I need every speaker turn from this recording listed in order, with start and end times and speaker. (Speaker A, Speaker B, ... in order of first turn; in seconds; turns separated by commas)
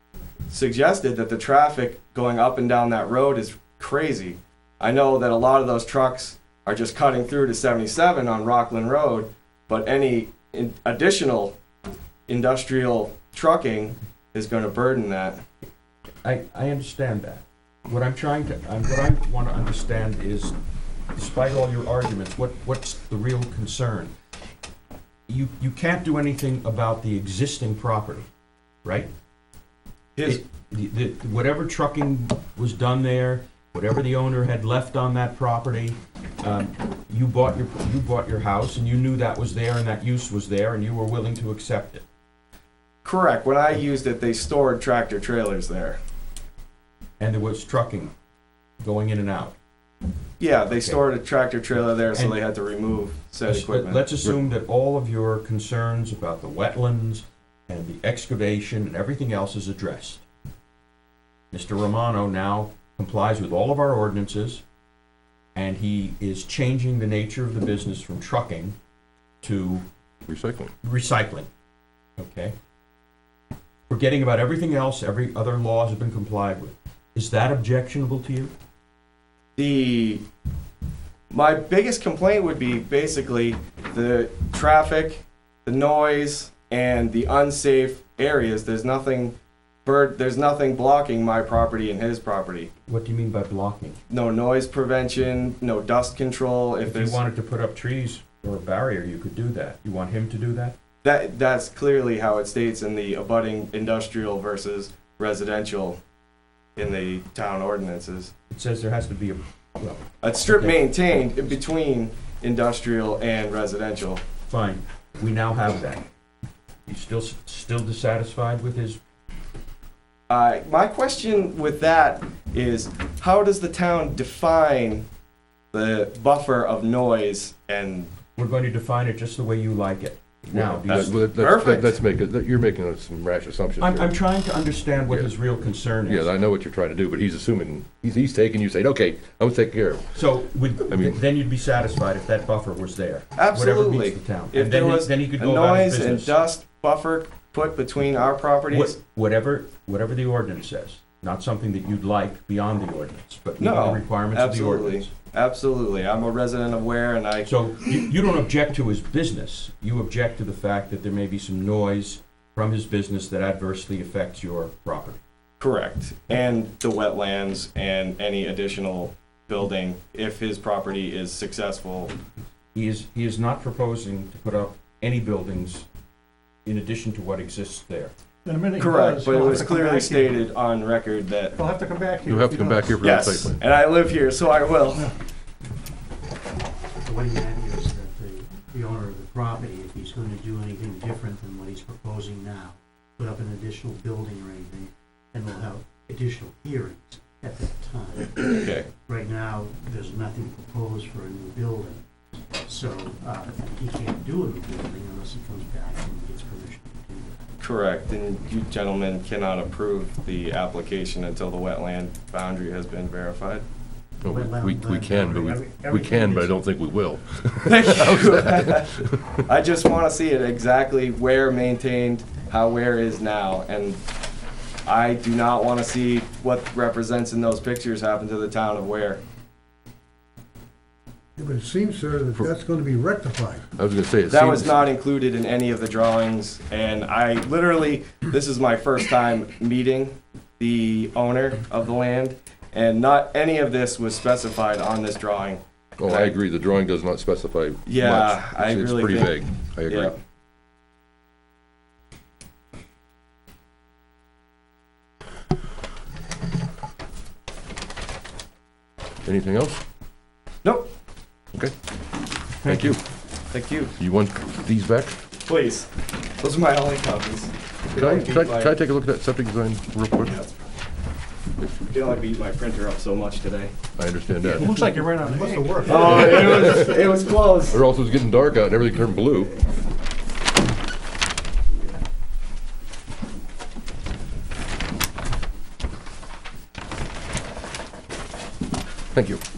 Speaker A: 0.5-11.5, Speaker A: 12.3-15.4, Speaker B: 16.2-20.5, Speaker B: 21.1-24.1, Speaker B: 25.3-28.2, Speaker B: 28.8-29.1, Speaker B: 30.2-42.0, Speaker A: 43.0-46.0, Speaker B: 47.2-48.1, Speaker B: 48.8-49.5, Speaker A: 50.4-54.0, Speaker B: 50.7-51.0, Speaker B: 53.5-60.2, Speaker B: 61.5-64.6, Speaker B: 65.5-68.8, Speaker B: 69.4-69.8, Speaker C: 70.3-70.7, Speaker B: 70.8-71.5, Speaker B: 72.2-72.5, Speaker B: 73.9-78.5, Speaker A: 79.6-80.2, Speaker A: 81.3-92.7, Speaker B: 92.9-94.0, Speaker A: 94.1-97.2, Speaker B: 96.8-100.7, Speaker A: 101.0-106.0, Speaker A: 106.8-108.3, Speaker B: 108.5-111.2, Speaker A: 110.2-114.2, Speaker B: 114.5-116.0, Speaker B: 116.9-119.0, Speaker A: 120.3-125.0, Speaker A: 125.7-128.1, Speaker B: 128.3-131.3, Speaker C: 130.5-134.1, Speaker A: 130.9-131.9, Speaker B: 133.8-136.3, Speaker C: 135.1-135.3, Speaker C: 136.0-140.1, Speaker B: 140.1-146.4, Speaker C: 140.9-141.2, Speaker A: 143.3-149.0, Speaker B: 148.7-155.1, Speaker A: 153.6-157.5, Speaker B: 157.4-165.2, Speaker A: 165.6-172.1, Speaker B: 172.7-175.8, Speaker B: 176.6-178.1, Speaker D: 178.4-180.4, Speaker A: 178.8-181.6, Speaker D: 181.5-182.9, Speaker C: 182.2-183.6, Speaker A: 183.0-185.1, Speaker E: 187.0-202.0, Speaker A: 198.5-198.8, Speaker E: 202.6-207.4, Speaker A: 207.6-213.6, Speaker E: 214.2-216.5, Speaker C: 214.2-219.2, Speaker A: 217.6-224.0, Speaker A: 224.8-229.2, Speaker F: 231.4-233.6, Speaker C: 233.8-234.7, Speaker A: 234.3-246.3, Speaker C: 246.0-250.1, Speaker A: 247.9-250.1, Speaker C: 259.2-259.8, Speaker A: 260.6-260.9, Speaker C: 262.6-263.0, Speaker B: 262.7-262.9, Speaker A: 263.5-263.9, Speaker C: 264.0-265.2, Speaker A: 265.4-265.9, Speaker A: 266.4-268.8, Speaker C: 267.9-270.4, Speaker A: 270.2-270.5, Speaker A: 271.9-273.7, Speaker C: 274.0-274.9, Speaker D: 274.4-276.7, Speaker A: 275.8-277.8, Speaker C: 275.9-277.1, Speaker C: 277.7-279.5, Speaker C: 289.1-289.4